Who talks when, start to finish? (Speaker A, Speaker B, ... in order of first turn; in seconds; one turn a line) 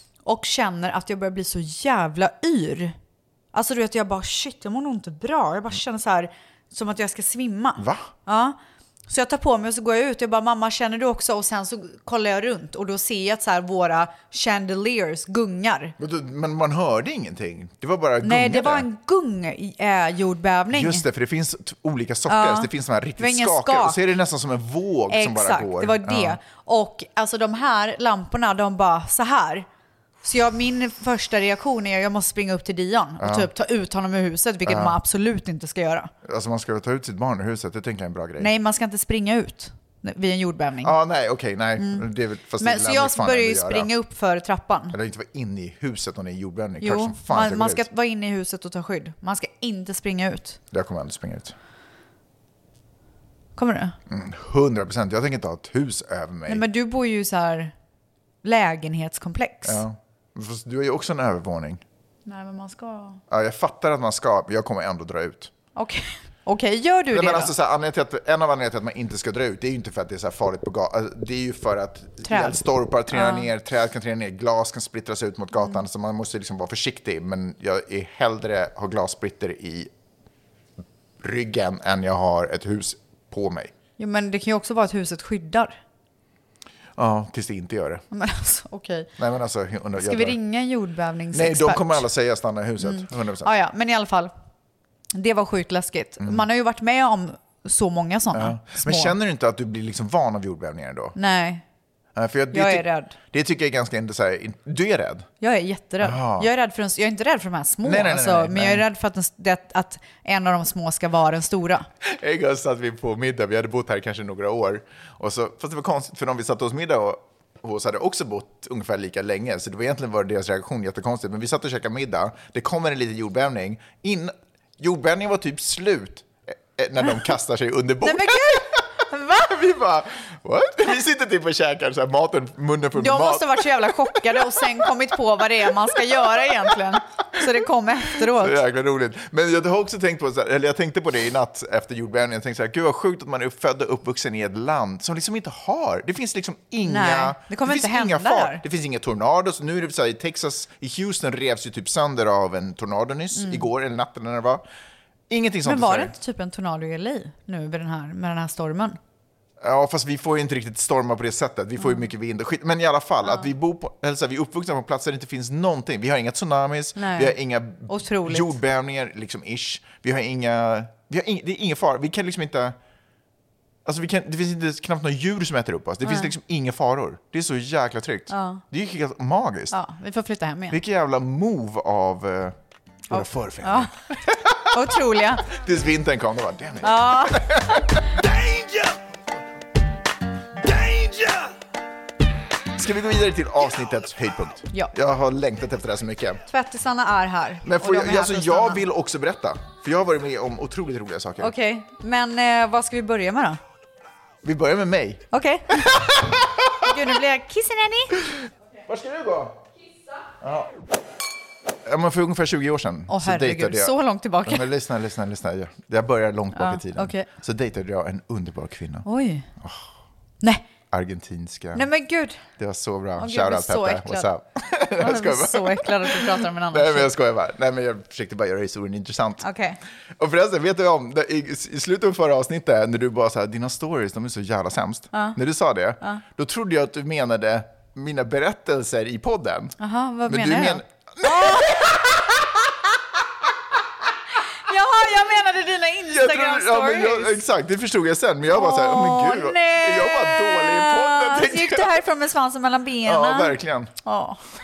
Speaker A: 0.2-2.9
Speaker A: 3.5-8.6
Speaker B: 7.8-8.1
Speaker A: 9.1-15.9
Speaker B: 16.0-18.9
Speaker A: 18.2-21.0
Speaker B: 20.7-26.4
Speaker A: 22.3-24.0
Speaker A: 25.1-29.6
Speaker A: 30.2-36.1
Speaker B: 33.2-33.5
Speaker B: 34.6-35.0
Speaker B: 36.2-38.5
Speaker A: 38.4-40.9
Speaker B: 40.8-43.9
Speaker A: 41.8-42.0
Speaker A: 42.6-45.0
Speaker B: 44.9-47.9
Speaker A: 46.8-50.6
Speaker B: 50.7-51.5
Speaker A: 53.6-54.0
Speaker B: 54.1-56.6
Speaker A: 56.5-57.7
Speaker A: 58.4-59.8
Speaker B: 59.6-61.8
Speaker A: 62.2-63.2
Speaker B: 63.3-65.5
Speaker A: 65.8-67.5
Speaker B: 67.1-79.9
Speaker A: 72.2-73.5
Speaker B: 81.2-83.7
Speaker A: 84.0-85.8
Speaker B: 87.0-88.0
Speaker A: 88.1-89.1
Speaker B: 89.2-90.4
Speaker A: 90.0-92.0
Speaker B: 91.3-93.5
Speaker A: 92.8-94.3
Speaker A: 95.1-99.1
Speaker B: 98.3-101.1
Speaker A: 101.1-101.6
Speaker B: 102.1-105.3
Speaker A: 102.5-103.1
Speaker A: 105.4-111.9
Speaker B: 106.0-106.5
Speaker B: 107.8-108.9
Speaker B: 112.0-128.8
Speaker A: 128.0-129.5
Speaker B: 129.4-134.7
Speaker A: 132.9-138.6
Speaker B: 138.2-154.6
Speaker A: 146.8-148.6
Speaker A: 153.3-153.6
Speaker B: 155.3-156.1
Speaker A: 155.6-159.0
Speaker B: 159.6-172.8
Speaker A: 167.0-167.3
Speaker A: 167.9-168.5
Speaker B: 173.8-179.8
Speaker A: 176.0-176.3
Speaker A: 178.3-178.6
Speaker A: 179.7-180.8
Speaker B: 180.7-182.6
Speaker B: 183.1-184.9
Speaker A: 183.1-183.9
Speaker A: 184.7-185.4
Speaker B: 185.4-189.0
Speaker A: 186.8-187.6
Speaker B: 190.6-191.5
Speaker B: 192.8-196.4
Speaker A: 196.5-198.8
Speaker B: 197.6-201.5
Speaker A: 201.4-203.6
Speaker B: 204.4-205.2
Speaker A: 205.3-206.3
Speaker B: 205.8-206.7
Speaker A: 206.8-208.2
Speaker B: 208.9-209.6
Speaker B: 210.4-210.7
Speaker B: 211.8-219.1
Speaker A: 213.1-214.7
Speaker A: 216.5-217.3
Speaker A: 219.0-219.5
Speaker B: 219.6-219.9
Speaker B: 220.9-221.9
Speaker A: 221.7-222.4
Speaker B: 222.6-229.4
Speaker A: 223.2-224.3
Speaker A: 225.0-227.1
Speaker A: 229.4-229.8
Speaker B: 230.2-239.8
Speaker A: 239.8-242.0
Speaker B: 240.3-242.4
Speaker A: 244.7-247.4
Speaker B: 246.1-252.0
Speaker A: 248.5-254.4
Speaker B: 253.0-253.9